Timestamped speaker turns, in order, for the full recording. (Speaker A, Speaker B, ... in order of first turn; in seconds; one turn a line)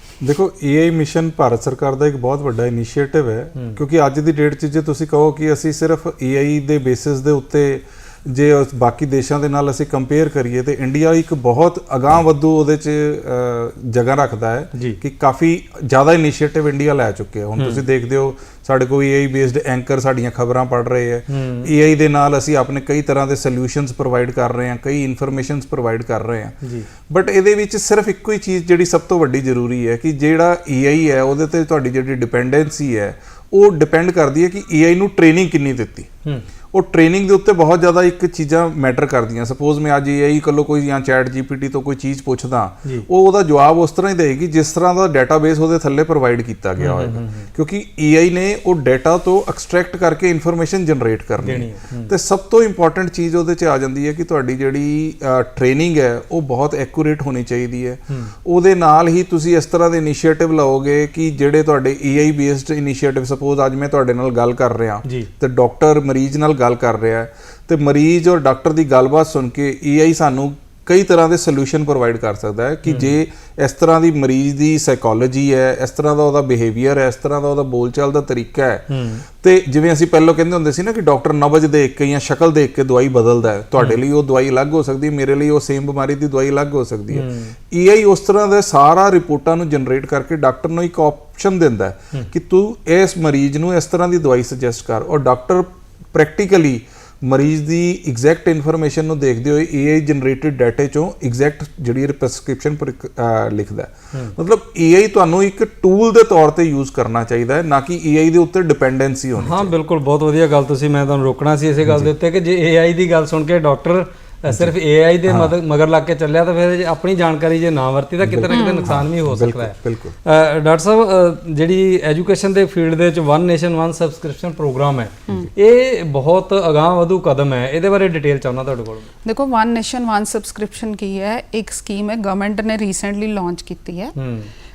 Speaker A: 0.2-36.1
Speaker B: 17.6-17.8
Speaker B: 21.3-21.7
Speaker B: 26.6-26.9
Speaker A: 36.7-109.7
Speaker B: 46.8-47.5
Speaker B: 51.4-52.1
Speaker B: 72.8-73.1
Speaker B: 78.9-79.2
Speaker B: 87.1-87.5
Speaker B: 109.4-129.1
Speaker A: 111.8-112.1
Speaker A: 114.5-114.7
Speaker A: 115.3-115.5
Speaker A: 118.2-120.2
Speaker C: 118.5-118.9
Speaker C: 129.2-134.1
Speaker B: 134.2-134.5